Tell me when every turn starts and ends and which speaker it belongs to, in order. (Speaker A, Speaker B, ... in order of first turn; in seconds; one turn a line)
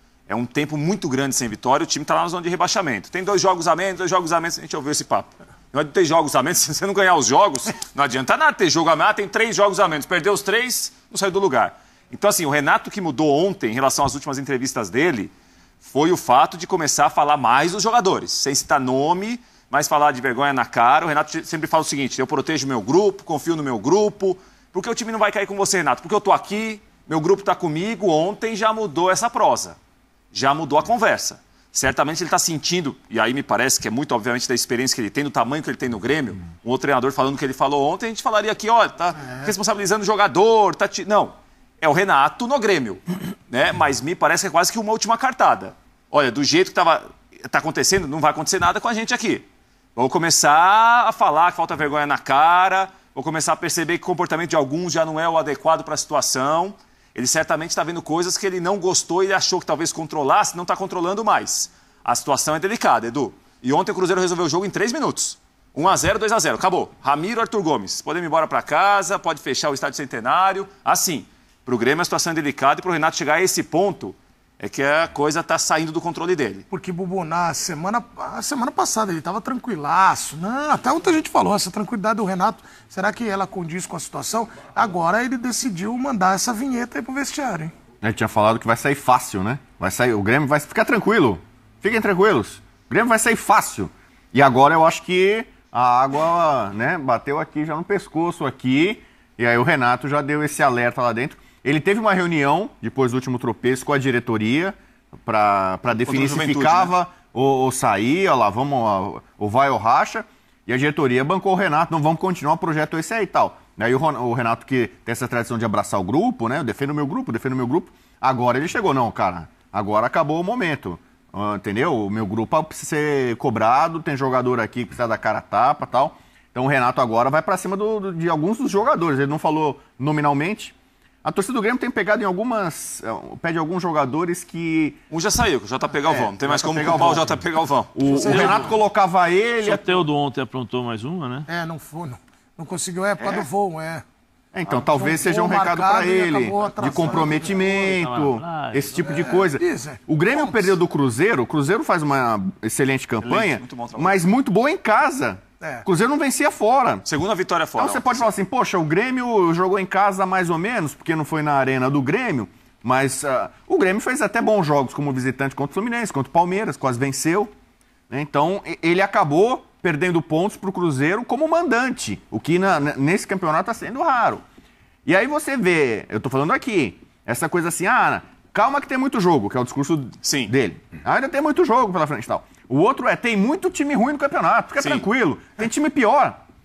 Speaker A: 0.3-15.3
Speaker A: 15.8-29.8
Speaker A: 30.3-76.7
Speaker B: 76.7-87.7
Speaker C: 88.0-135.0
Speaker A: 106.1-106.9
Speaker A: 135.1-138.6
Speaker C: 136.1-137.4
Speaker C: 137.9-140.0
Speaker B: 138.1-138.7
Speaker D: 138.3-138.7
Speaker D: 139.6-141.5
Speaker B: 141.5-144.0
Speaker A: 143.2-143.5
Speaker C: 144.5-157.1
Speaker B: 144.7-147.7
Speaker D: 147.1-149.2
Speaker B: 149.0-150.8
Speaker A: 153.2-154.3
Speaker B: 155.6-155.9
Speaker A: 157.1-158.3
Speaker C: 157.8-167.5
Speaker C: 168.1-174.4
Speaker C: 175.1-186.4
Speaker A: 180.2-180.5
Speaker A: 184.8-185.1